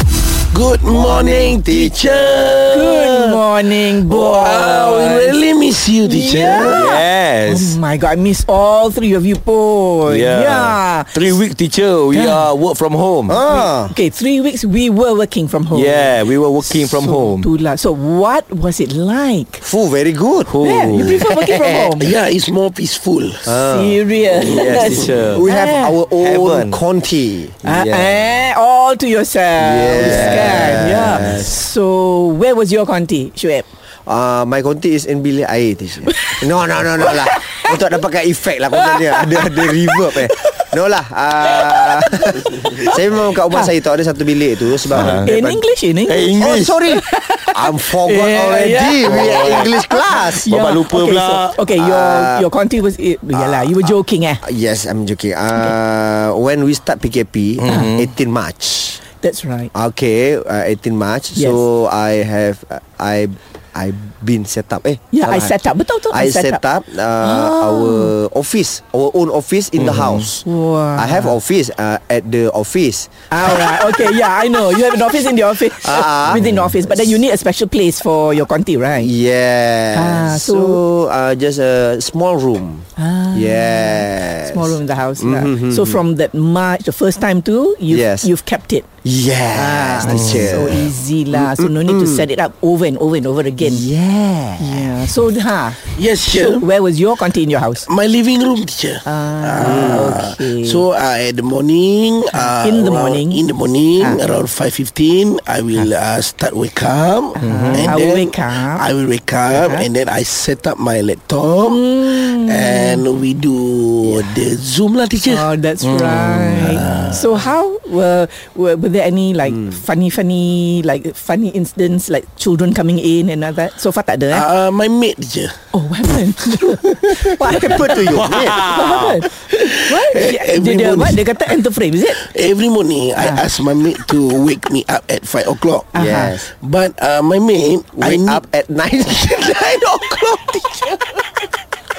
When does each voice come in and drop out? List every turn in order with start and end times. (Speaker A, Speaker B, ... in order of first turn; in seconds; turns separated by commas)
Speaker A: 0.5-3.4, Speaker B: 0.9-2.6, Speaker C: 2.7-5.4, Speaker A: 4.1-6.8, Speaker C: 6.0-11.2, Speaker D: 6.7-7.8, Speaker D: 10.1-13.4, Speaker C: 12.1-12.5, Speaker B: 13.3-13.9, Speaker C: 13.5-19.6, Speaker D: 15.7-17.5, Speaker B: 19.6-20.6, Speaker D: 20.5-21.2, Speaker C: 20.6-22.1, Speaker B: 21.4-22.0, Speaker A: 22.0-23.5, Speaker B: 23.4-24.0, Speaker C: 23.5-26.0, Speaker A: 24.3-25.2, Speaker D: 24.5-25.5, Speaker B: 25.2-27.6, Speaker D: 26.1-26.8, Speaker D: 27.6-28.1, Speaker C: 27.6-33.7, Speaker B: 29.6-31.5, Speaker D: 29.9-31.4, Speaker B: 34.1-45.6, Speaker C: 37.0-37.7, Speaker C: 38.8-40.7, Speaker C: 41.5-43.0, Speaker D: 44.9-45.3, Speaker C: 45.2-46.4, Speaker D: 46.1-46.8, Speaker B: 46.4-50.5, Speaker C: 46.9-54.4, Speaker D: 49.0-49.7, Speaker D: 50.4-51.6, Speaker B: 51.7-52.5, Speaker B: 53.3-59.0, Speaker D: 57.6-58.1, Speaker C: 59.1-59.7, Speaker B: 59.7-65.6, Speaker C: 61.4-61.6, Speaker C: 65.1-66.6, Speaker B: 66.1-70.4, Speaker C: 67.2-68.1, Speaker D: 69.8-70.3, Speaker C: 70.4-71.3, Speaker B: 71.0-73.9, Speaker C: 73.3-79.1, Speaker B: 75.7-77.2, Speaker B: 79.0-86.0, Speaker C: 79.9-80.8, Speaker C: 83.0-88.9, Speaker B: 87.9-88.3, Speaker B: 89.0-92.3, Speaker C: 89.5-93.9, Speaker D: 90.1-90.4, Speaker B: 93.6-95.0, Speaker C: 94.6-97.9, Speaker A: 95.8-96.7, Speaker A: 97.9-115.5, Speaker C: 99.0-100.9, Speaker B: 99.6-100.1, Speaker C: 102.3-103.4, Speaker C: 107.4-108.9, Speaker D: 107.4-108.0, Speaker C: 109.5-109.9, Speaker C: 111.7-113.0, Speaker C: 115.2-124.5, Speaker D: 115.8-116.8, Speaker A: 116.6-117.2, Speaker B: 119.5-119.8, Speaker A: 124.3-125.6, Speaker C: 125.7-132.2, Speaker B: 127.4-128.7, Speaker D: 128.3-129.2, Speaker A: 129.4-131.3, Speaker A: 132.1-135.9, Speaker C: 133.2-133.4, Speaker C: 135.9-136.4, Speaker B: 135.9-136.5, Speaker A: 136.6-138.4, Speaker B: 137.9-141.1